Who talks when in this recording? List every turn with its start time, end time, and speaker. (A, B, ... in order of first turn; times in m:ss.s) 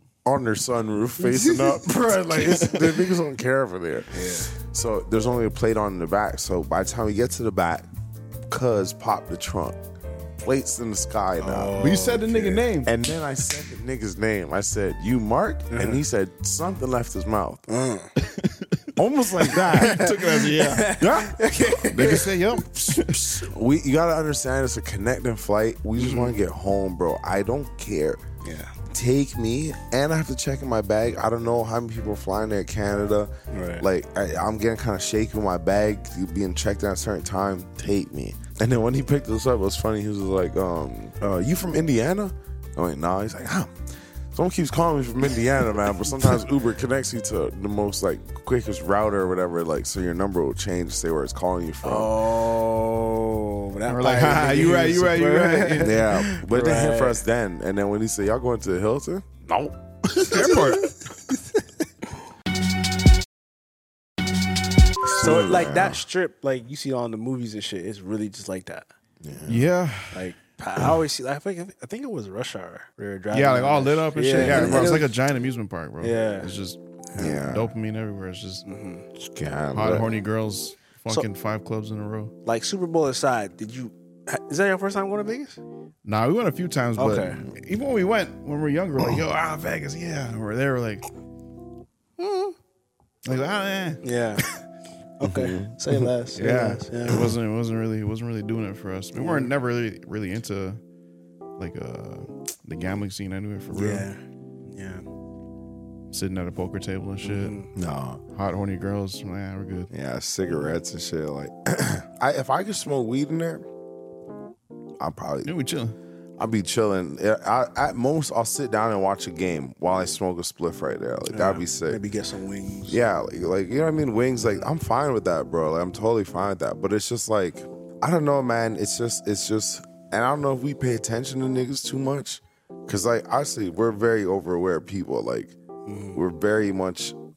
0:00.2-0:07.9 A
0:01.2-0:01.7 B
0:04.1-0:04.5 B
0:08.5-0:09.8 A
0:10.4-0:12.0 A
0:11.4-0:12.6 B
0:11.8-0:12.9 C
0:12.8-0:17.6 A
0:15.7-0:16.0 B
0:17.7-0:18.1 B
0:18.2-0:18.9 C
0:19.0-0:20.2 A
0:19.4-0:21.0 C
0:19.6-0:22.3 B
0:20.9-0:22.2 A
0:21.8-0:23.5 C
0:22.9-0:28.2 A
0:26.0-0:26.3 B
0:28.4-0:28.7 B
0:28.9-0:43.8 A
0:33.5-0:33.9 B
0:44.3-0:52.2 A
0:51.8-0:57.2 B
0:53.9-0:56.0 C
0:55.8-1:00.6 A
1:00.2-1:00.9 C
1:05.1-1:08.9 B
1:05.1-1:06.0 A
1:09.2-1:09.7 A
1:09.5-1:10.2 C
1:10.1-1:15.1 B
1:13.3-1:18.6 C
1:14.3-1:15.0 A
1:16.0-1:16.5 B
1:17.2-1:17.7 A
1:18.6-1:19.0 B
1:19.1-1:20.1 A
1:19.7-1:22.3 C
1:22.4-1:25.6 B
1:26.0-1:31.0 C
1:27.0-1:27.4 B
1:32.2-1:32.6 B
1:33.2-1:34.0 C
1:34.0-1:34.5 B
1:35.2-1:37.3 B
1:35.2-1:36.0 A
1:36.3-1:40.8 C
1:39.1-1:39.5 B
1:41.6-1:44.1 C
1:43.7-1:45.0 B
1:46.1-1:47.6 C
1:47.2-1:47.7 B
1:47.7-1:48.2 A
1:48.3-1:49.9 C
1:49.9-1:53.6 A
1:55.0-1:55.5 A
1:55.4-1:56.0 C
1:56.4-2:02.0 A
2:01.3-2:03.0 B
2:02.9-2:15.6 A
2:15.9-2:16.2 B
2:16.1-2:17.2 A